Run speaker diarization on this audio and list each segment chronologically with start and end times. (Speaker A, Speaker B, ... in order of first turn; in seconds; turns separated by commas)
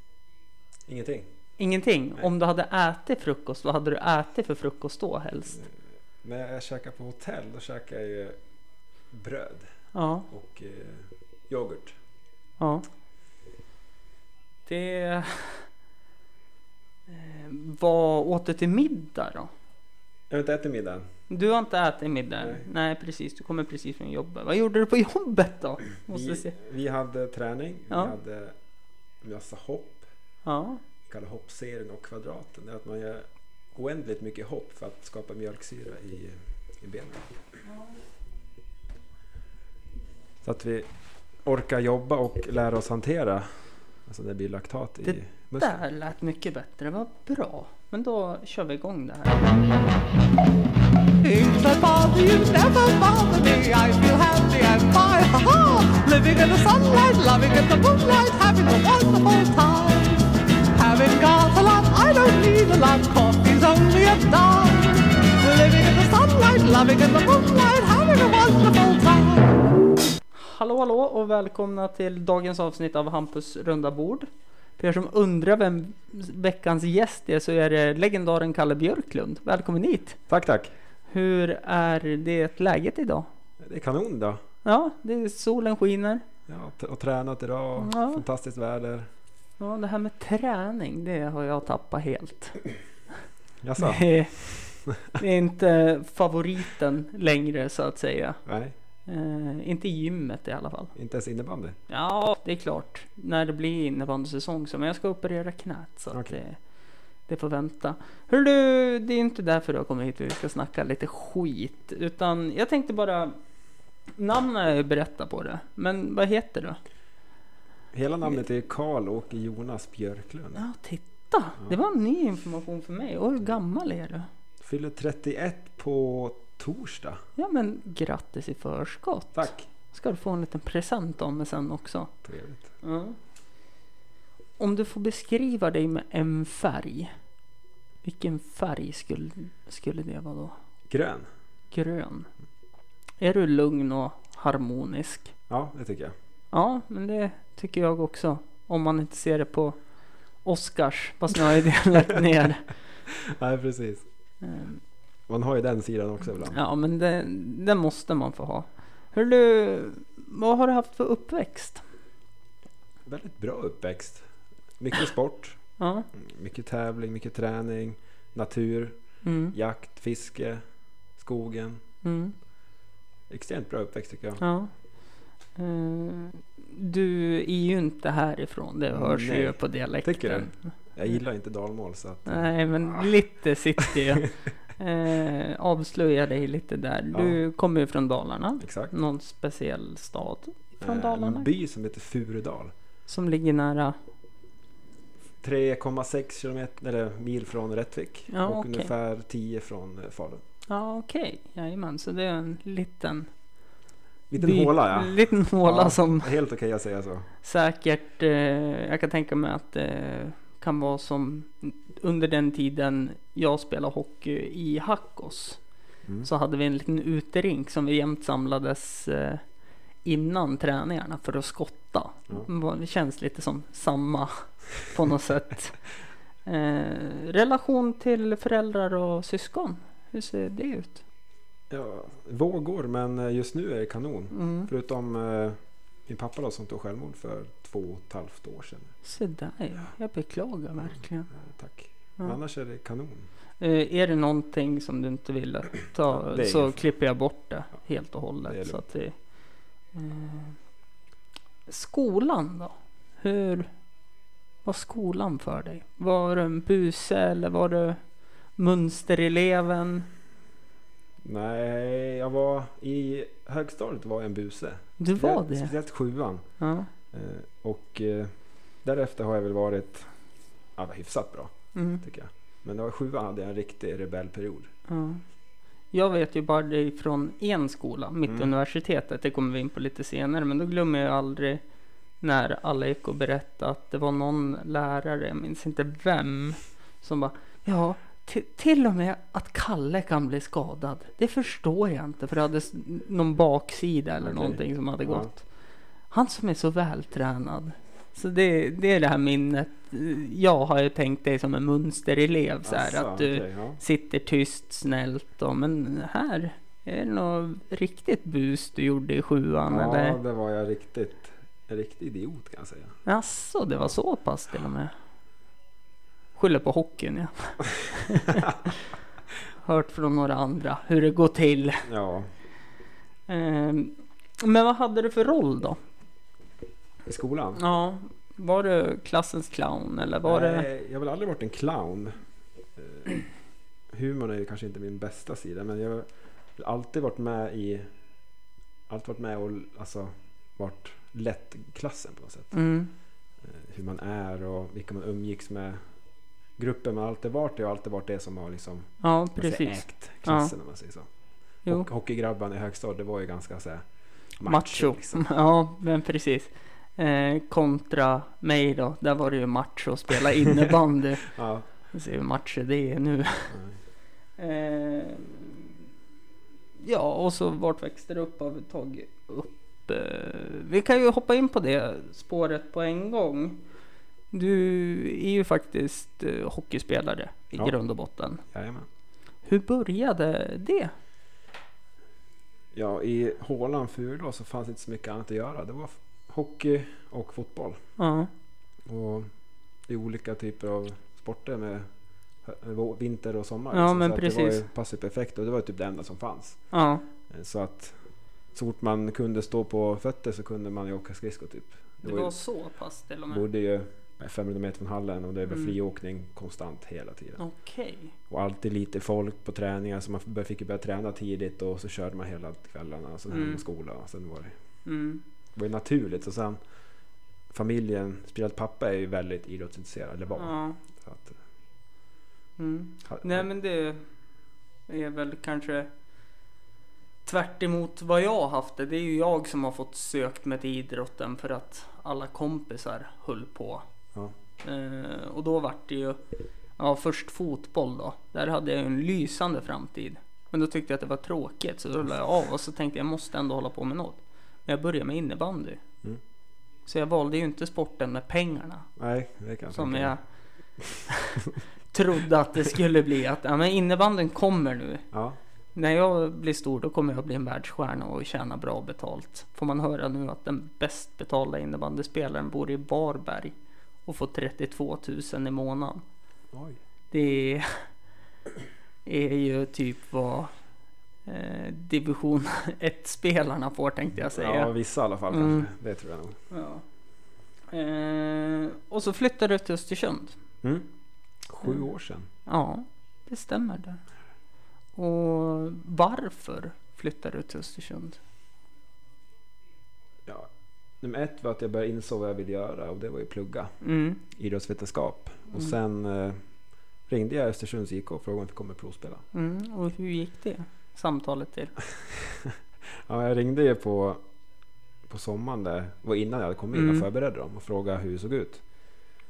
Speaker A: 0.9-1.3, Speaker B: 1.6-5.6, Speaker A: 6.2-8.4, Speaker A: 9.1-9.7, Speaker B: 9.9-10.3, Speaker A: 10.3-12.0, Speaker B: 12.6-12.8, Speaker B: 14.7-15.7, Speaker B: 17.1-19.5, Speaker A: 20.3-21.1, Speaker B: 21.3-26.5, Speaker A: 22.4-22.6, Speaker A: 26.1-28.6, Speaker B: 27.9-28.1, Speaker A: 29.2-30.1, Speaker B: 30.4-30.8, Speaker A: 31.1-37.3, Speaker A: 40.4-40.9, Speaker A: 41.4-45.9, Speaker B: 45.0-49.5, Speaker C: 51.2-69.6, Speaker B: 70.3-80.2, Speaker A: 80.3-80.7, Speaker B: 81.1-83.3, Speaker A: 83.6-84.4, Speaker B: 84.6-86.2, Speaker A: 86.5-89.1, Speaker B: 87.8-88.2, Speaker B: 89.6-92.6, Speaker A: 93.6-95.2, Speaker B: 93.8-98.4, Speaker A: 98.5-98.7, Speaker B: 99.1-100.9, Speaker A: 100.9-101.8, Speaker B: 101.9-106.6, Speaker A: 106.1-106.4, Speaker B: 107.3-113.4, Speaker B: 114.2-116.8, Speaker A: 117.9-120.6, Speaker B: 120.5-124.3, Speaker A: 124.6-127.2, Speaker B: 127.4-132.1, Speaker A: 129.3-129.6, Speaker A: 132.2-132.7, Speaker B: 132.8-133.2, Speaker B: 134.6-137.1, Speaker B: 138.0-140.5, Speaker A: 140.9-141.3, Speaker B: 141.7-142.3, Speaker B: 143.2-145.3, Speaker A: 145.5-146.1, Speaker B: 146.5-149.8, Speaker B: 150.4-152.7, Speaker A: 153.1-154.1, Speaker B: 154.4-154.8, Speaker A: 155.3-156.6, Speaker B: 156.4-161.8, Speaker A: 163.0-164.3, Speaker A: 164.8-165.6, Speaker B: 165.8-166.1, Speaker A: 166.1-169.0, Speaker B: 169.2-169.5, Speaker A: 169.5-170.6, Speaker A: 171.2-171.8, Speaker B: 172.0-172.3, Speaker A: 173.3-174.4, Speaker B: 174.4-174.7, Speaker B: 175.6-180.6, Speaker A: 178.9-183.1, Speaker B: 182.3-191.5, Speaker A: 187.1-187.4, Speaker A: 188.6-188.9, Speaker A: 190.8-192.7, Speaker B: 193.1-194.0, Speaker A: 195.4-200.4, Speaker B: 198.3-198.9, Speaker B: 200.7-203.3, Speaker A: 204.3-207.3, Speaker B: 204.4-206.3, Speaker B: 207.4-215.6, Speaker B: 216.2-219.4, Speaker B: 220.0-225.8, Speaker B: 226.4-231.0, Speaker A: 231.7-238.9, Speaker B: 234.3-234.7, Speaker B: 239.0-241.3, Speaker A: 241.3-243.3, Speaker B: 243.6-249.2, Speaker A: 246.1-246.9, Speaker A: 248.4-248.9, Speaker B: 249.9-250.6, Speaker B: 251.7-253.7, Speaker B: 254.6-260.1, Speaker A: 261.2-266.4, Speaker B: 265.0-265.7, Speaker B: 266.6-266.9, Speaker A: 267.1-270.1, Speaker A: 270.8-274.7, Speaker B: 271.7-272.0, Speaker B: 274.9-275.2, Speaker B: 275.9-281.6, Speaker A: 278.2-278.5, Speaker B: 282.2-295.4, Speaker A: 294.2-295.3, Speaker B: 296.1-310.2, Speaker A: 302.6-303.8, Speaker A: 309.7-313.0, Speaker B: 313.1-314.9, Speaker B: 316.3-318.8, Speaker B: 319.6-321.9, Speaker A: 321.8-322.3, Speaker B: 323.3-325.8, Speaker A: 327.1-327.6, Speaker B: 327.5-330.6, Speaker A: 330.2-332.2, Speaker A: 332.8-333.2, Speaker A: 333.9-337.9, Speaker A: 338.9-342.5, Speaker B: 342.5-342.9, Speaker A: 343.4-345.8, Speaker A: 346.6-351.1, Speaker B: 349.0-350.5, Speaker A: 351.7-353.9, Speaker A: 354.4-355.2, Speaker B: 354.4-361.3, Speaker A: 361.3-361.7, Speaker B: 361.9-363.6, Speaker A: 363.5-363.8, Speaker B: 364.4-365.7, Speaker B: 366.8-373.6, Speaker B: 374.3-378.4, Speaker A: 378.5-378.9, Speaker B: 379.4-380.9, Speaker A: 382.7-387.8, Speaker B: 388.0-388.3, Speaker A: 388.9-389.3, Speaker A: 389.9-391.9, Speaker A: 392.4-396.6, Speaker B: 393.7-394.6, Speaker B: 396.7-397.0, Speaker A: 397.3-398.0, Speaker A: 398.5-402.3, Speaker B: 402.0-403.4, Speaker A: 403.3-407.4, Speaker B: 407.4-408.1, Speaker A: 408.3-414.5, Speaker B: 413.3-413.6, Speaker B: 414.8-415.2, Speaker A: 415.5-416.6, Speaker A: 417.5-421.4, Speaker B: 420.4-420.8, Speaker B: 422.6-424.0, Speaker A: 423.1-423.4, Speaker B: 424.9-425.9, Speaker B: 427.2-433.9, Speaker B: 434.6-436.2, Speaker B: 436.8-445.8, Speaker B: 446.9-448.9, Speaker A: 449.0-450.1, Speaker B: 449.7-450.2, Speaker B: 451.1-455.0, Speaker A: 455.1-455.4, Speaker B: 455.7-466.0, Speaker A: 466.5-466.8, Speaker B: 467.1-467.9, Speaker B: 469.0-470.5, Speaker B: 471.2-474.7, Speaker A: 474.3-476.4, Speaker B: 475.3-475.7, Speaker B: 476.5-476.8, Speaker B: 477.7-480.4, Speaker A: 480.6-480.9, Speaker A: 481.4-482.3, Speaker B: 482.4-484.0, Speaker B: 484.9-488.2, Speaker A: 491.0-493.7, Speaker B: 493.8-494.2, Speaker A: 494.3-496.4, Speaker A: 497.1-499.2, Speaker B: 499.3-501.7, Speaker A: 501.9-504.2, Speaker A: 505.1-508.6, Speaker B: 506.7-507.1